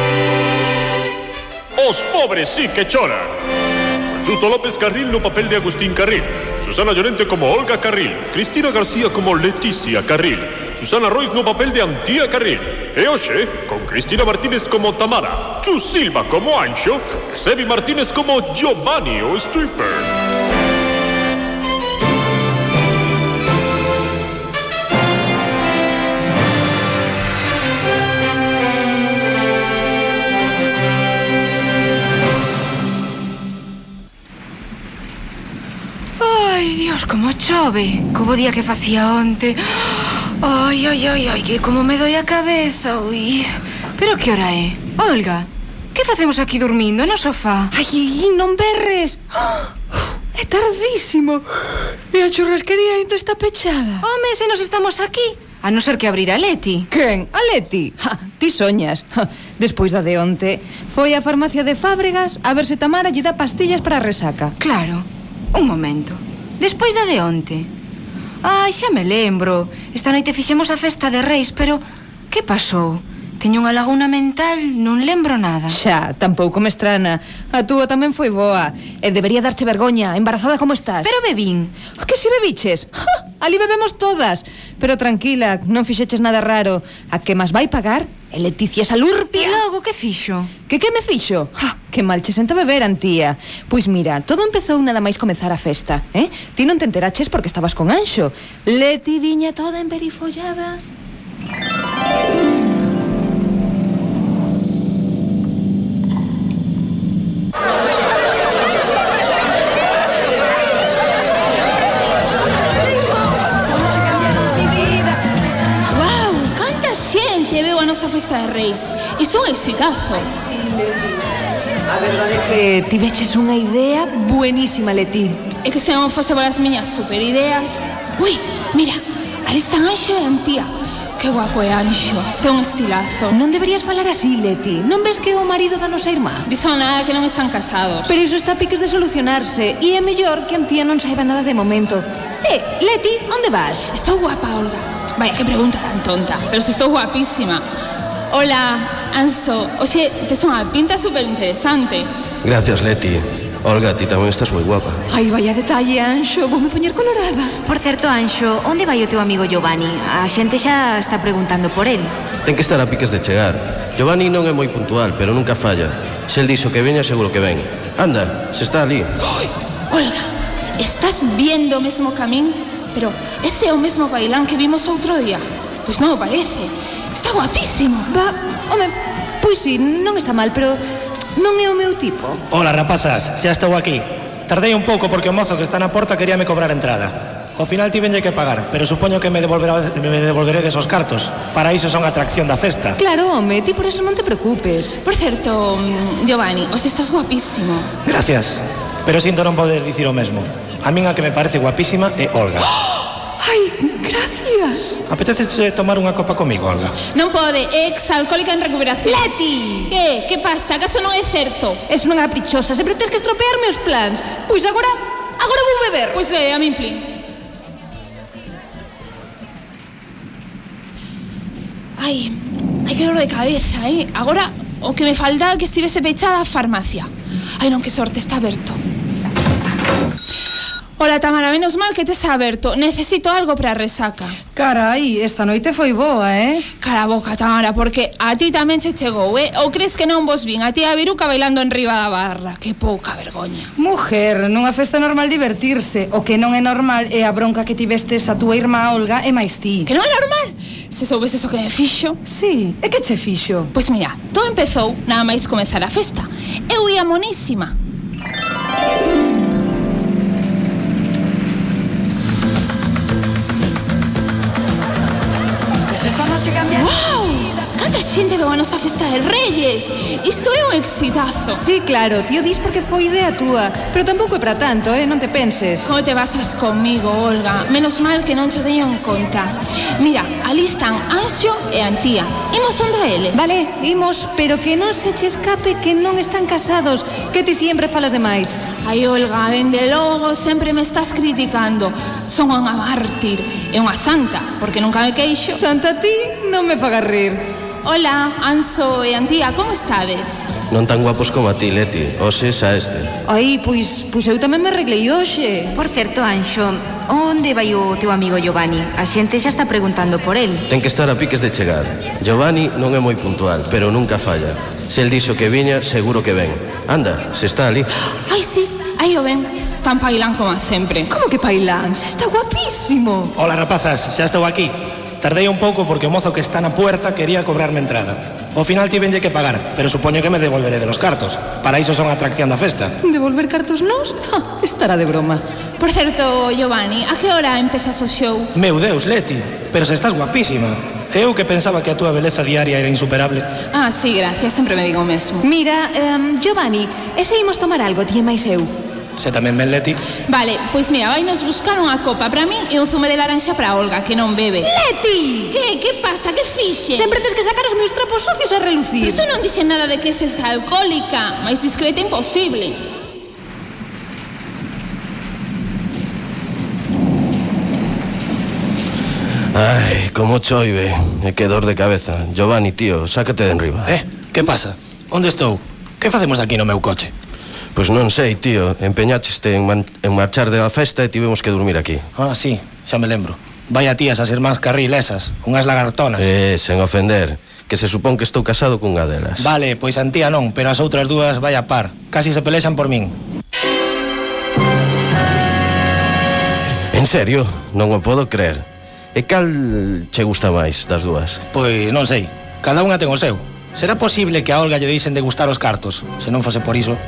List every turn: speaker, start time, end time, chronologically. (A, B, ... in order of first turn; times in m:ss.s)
0:01.8-0:03.3 A
0:04.2-0:20.1 A
0:36.2-0:47.7 B
0:47.7-0:49.7 C
0:50.3-0:51.4 C
0:52.1-0:54.0 C
0:54.0-0:56.9 B
0:56.9-1:04.5 C
1:04.6-1:07.7 B
1:08.4-1:15.8 B
1:15.7-1:21.0 C
1:21.0-1:21.8 B
1:21.9-1:24.4 C
1:25.0-1:29.6 C
1:29.3-1:30.6 B
1:30.7-1:40.8 C
1:55.8-2:00.3 D
2:00.6-2:01.0 C
2:01.9-2:05.4 C
2:05.6-2:13.4 D
2:13.3-2:16.4 C
2:16.4-2:18.1 D
2:18.1-2:23.9 C
2:23.9-2:27.6 D
2:28.3-2:32.1 D
2:32.4-2:35.0 E
2:35.1-2:37.5 C
2:37.6-2:42.2 B
2:42.4-2:49.1 E
2:49.4-2:58.1 D
2:58.1-3:00.8 C
3:01.4-3:02.4 C
3:02.5-3:13.0 F
3:13.1-3:15.0 C
3:15.0-3:17.9 D
3:18.0-3:22.7 F
3:23.4-3:25.0 C
3:25.1-3:27.0 F
3:27.1-3:29.3 D
3:29.1-3:29.9 C
3:29.9-3:31.8 D
3:31.9-3:36.1 C
3:36.1-3:37.2 D
3:42.0-3:48.8 D
3:51.0-3:54.4 D
3:54.5-3:56.6 G
3:56.8-4:03.7 D
4:03.8-4:09.8 G
4:09.8-4:12.2 D
4:12.3-4:13.7 G
4:13.7-4:17.8 D
4:26.6-4:31.6 D
4:31.6-4:35.8 C
4:35.8-4:43.5 D
4:43.4-4:48.6 C
4:48.8-4:55.6 D
4:55.8-4:57.4 C
4:57.8-5:00.4 D
5:00.7-5:03.1 E
5:03.3-5:05.5 C
5:05.7-5:10.6 B
5:10.7-5:17.9 E
5:18.3-5:21.1 D
5:21.1-5:23.3 C
5:23.4-5:32.9 F
5:33.1-5:35.4 C
5:35.8-5:38.5 D
5:38.5-5:43.5 F
5:43.7-5:45.5 D
5:45.6-5:48.7 C
5:49.2-5:50.0 F
5:50.3-5:54.7 D
5:54.8-5:55.5 C
5:55.4-5:57.2 D
5:57.0-5:59.2 C
5:59.0-6:02.9 D
6:09.5-6:13.9 E
6:13.8-6:17.1 F
6:17.8-6:22.0 E
6:22.2-6:26.2 F
6:26.2-6:29.5 E
6:29.4-6:33.1 F
6:36.9-6:38.6 E
6:39.1-6:41.4 E
6:41.5-6:47.0 F